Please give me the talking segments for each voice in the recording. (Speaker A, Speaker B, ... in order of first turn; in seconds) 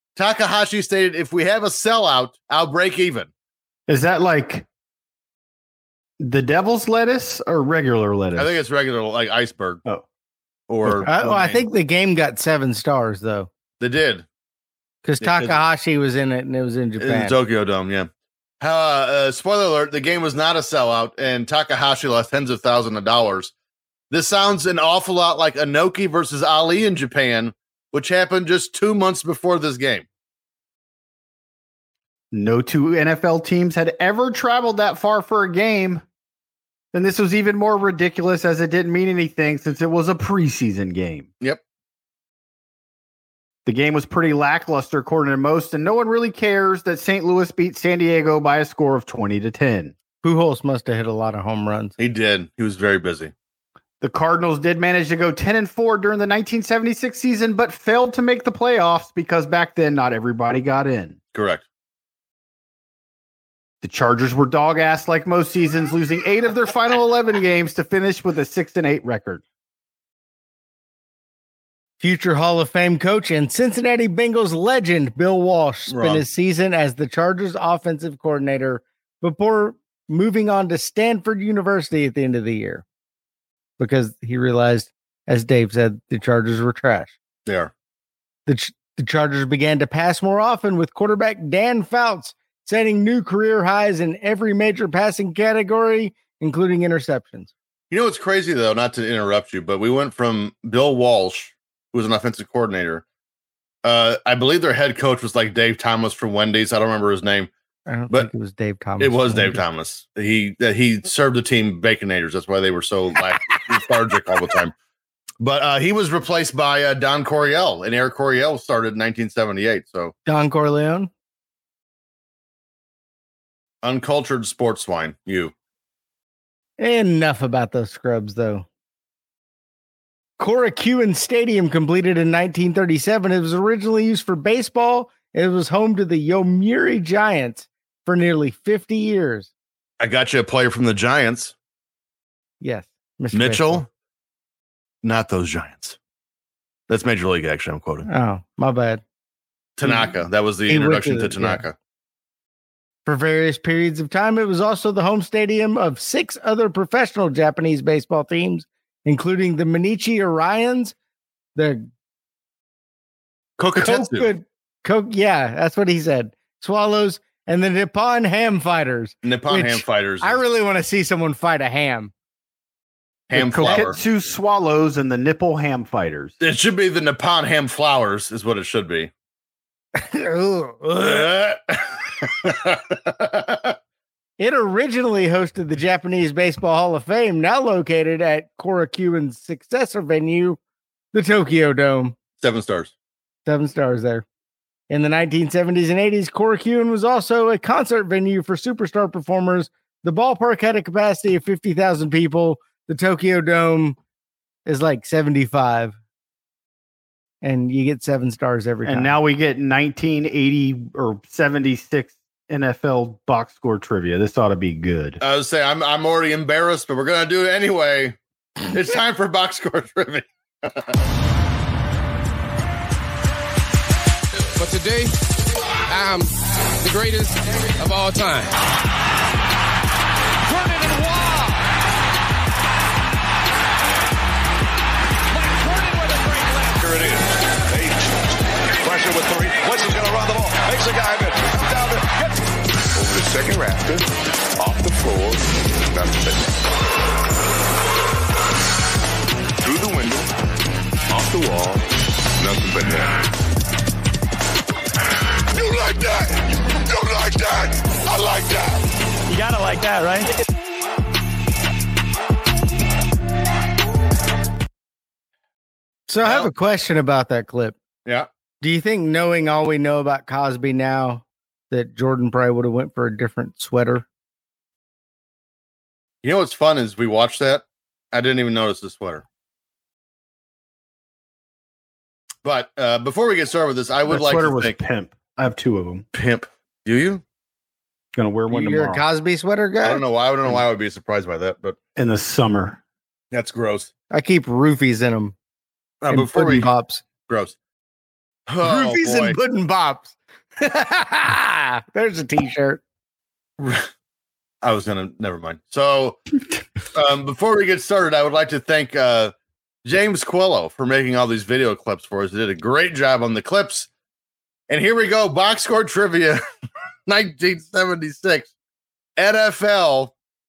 Speaker A: 0.2-3.3, 8.4-9.8, 10.7-11.6, 13.8-14.3, 15.2-15.6, 17.0-18.1, 18.6-23.5, 24.1-30.1, 52.0-53.3, 61.3-61.6, 75.9-76.2, 87.5-87.7, 97.9-103.0, 103.8-107.5, 109.0-114.7, 115.4-120.1, 123.8-125.5, 140.0-141.5, 143.3-143.9, 145.0-146.0, 146.9-148.1, 149.8-151.8, 163.6-164.3, 169.2-170.4, 173.3-174.0, 176.4-179.1, 181.0-183.8, 192.4-192.9, 215.2-220.9, 266.2-266.5, 276.2-279.2, 282.4-284.8, 286.1-287.2, 289.8-291.8, 293.3-293.9, 296.0-296.7, 297.3-297.6, 298.5-299.4, 303.6-303.9, 304.6-306.2, 306.9-309.3, 309.9-313.9, 314.7-316.4, 317.1-318.5, 319.2-320.1
Speaker B: 3.9-4.7, 6.2-8.5, 32.3-36.0, 36.9-41.3, 43.7-49.9, 54.0-61.2, 63.8-69.4, 173.3-176.3, 208.8-215.2, 259.4-259.7, 284.1-286.1, 288.1-289.0, 292.0-292.8
Speaker C: 11.1-13.5, 15.0-17.4, 50.2-51.9, 72.0-82.8, 83.8-87.1, 88.5-97.5, 107.9-109.6, 120.3-121.1, 126.8-128.7, 130.4-139.5, 142.6-143.8, 148.1-149.0, 149.8-150.1, 150.7-151.6, 153.1-160.9, 161.6-161.9, 163.8-172.1, 180.0-181.3, 184.4-190.6, 191.1-192.2, 193.5-194.2, 194.9-204.0, 204.7-206.0, 207.4-209.2, 266.1-267.8, 268.6-274.1, 288.5-290.0, 294.1-295.3, 296.1-297.0, 298.6-302.8
Speaker D: 224.6-225.1, 225.9-228.5, 230.5-231.6
Speaker E: 235.4-246.6, 249.6-250.3, 251.1-251.8, 252.4-253.2, 255.5-258.9